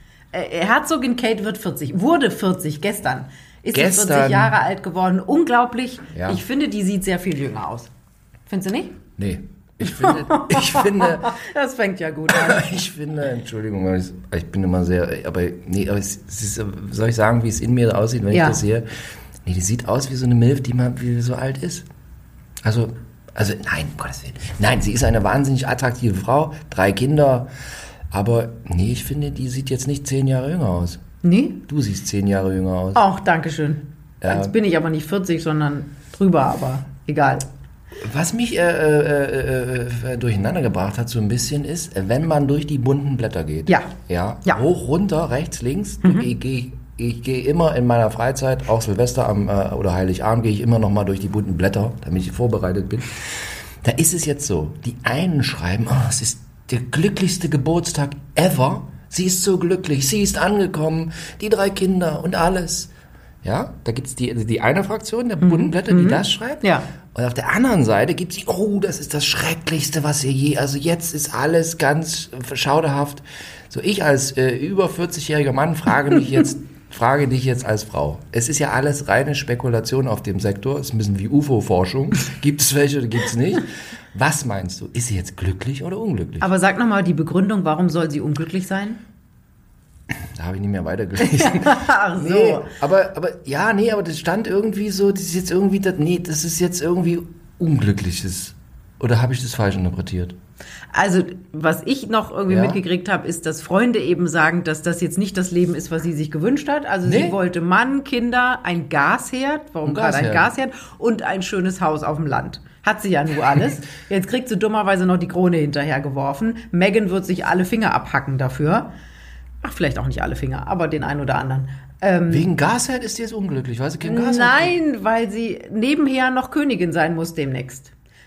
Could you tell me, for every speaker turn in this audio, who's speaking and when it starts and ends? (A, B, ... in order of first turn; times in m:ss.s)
0:00.3-0:07.9 A
0:03.7-0:04.6 B
0:06.1-0:06.4 B
0:08.5-0:09.0 A
0:09.2-0:11.4 B
0:09.8-0:12.7 A
0:12.3-0:18.8 B
0:18.3-0:18.6 A
0:19.4-0:21.8 B
0:22.6-0:27.5 B
0:28.1-0:31.0 B
0:31.2-0:31.6 A
0:31.7-0:33.0 B
0:33.0-0:37.5 A
0:34.2-0:34.5 B
0:38.0-1:02.9 B
1:03.4-1:26.5 B
1:05.4-1:06.9 A
1:26.4-1:29.0 A
1:30.1-1:40.4 B
1:31.2-1:32.7 A
1:40.9-1:58.9 A
1:42.5-1:42.8 B
1:47.0-1:47.4 B
1:49.8-1:50.5 B
1:59.6-2:02.5 A
2:02.3-2:04.7 B
2:04.0-2:07.9 A